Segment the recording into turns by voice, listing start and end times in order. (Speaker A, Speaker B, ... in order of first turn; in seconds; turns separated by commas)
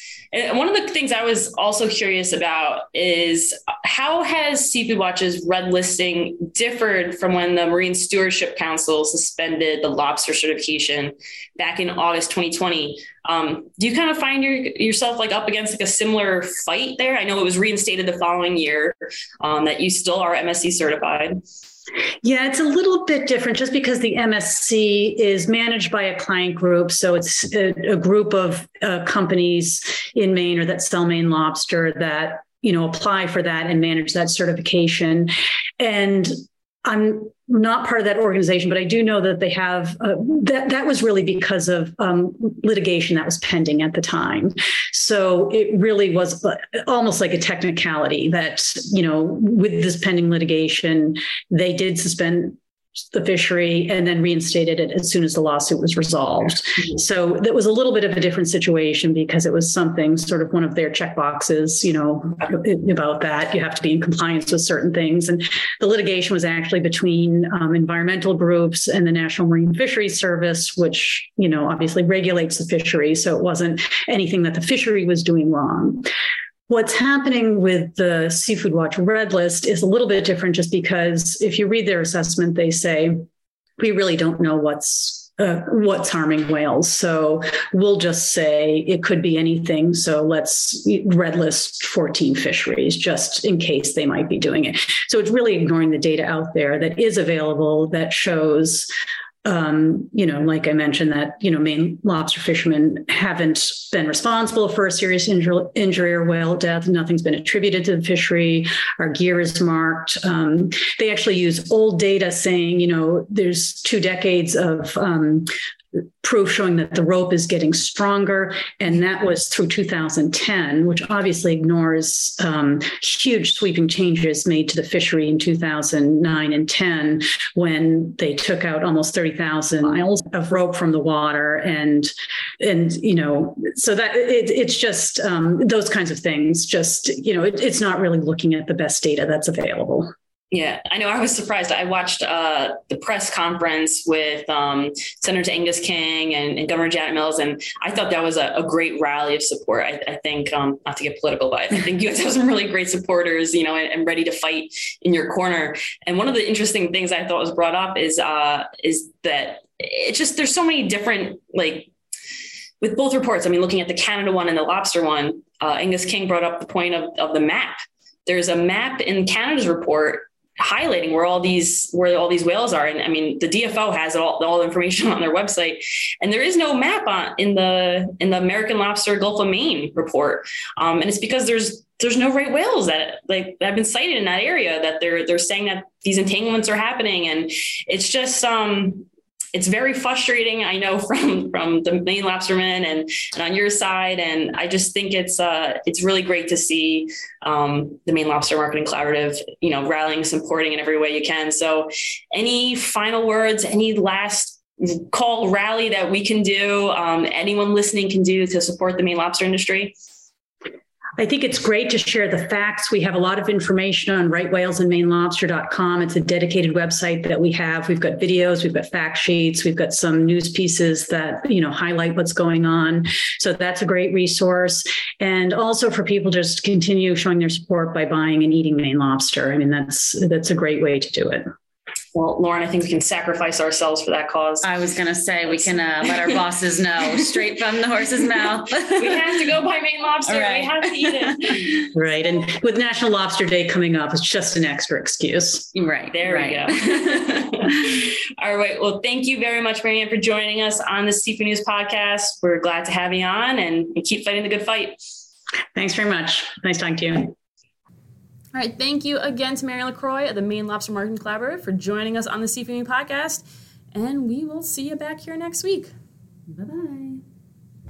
Speaker A: 0.3-21.4, Speaker B: 22.2-36.3, Speaker B: 36.8-52.6, Speaker B: 53.1-76.1, Speaker B: 76.7-83.2, Speaker B: 83.8-98.9, Speaker B: 99.4-140.1, Speaker A: 140.5-161.9, Speaker A: 162.8-167.8, Speaker A: 168.3-209.9, Speaker B: 211.2-231.4, Speaker A: 232.1-234.7, Speaker C: 234.6-239.3, Speaker A: 235.5-236.4, Speaker A: 238.8-241.8, Speaker C: 240.3-241.8, Speaker B: 241.9-245.7, Speaker C: 245.7-247.3, Speaker A: 246.1-255.0, Speaker B: 255.7-257.3, Speaker D: 258.5-265.9, Speaker C: 266.5-267.2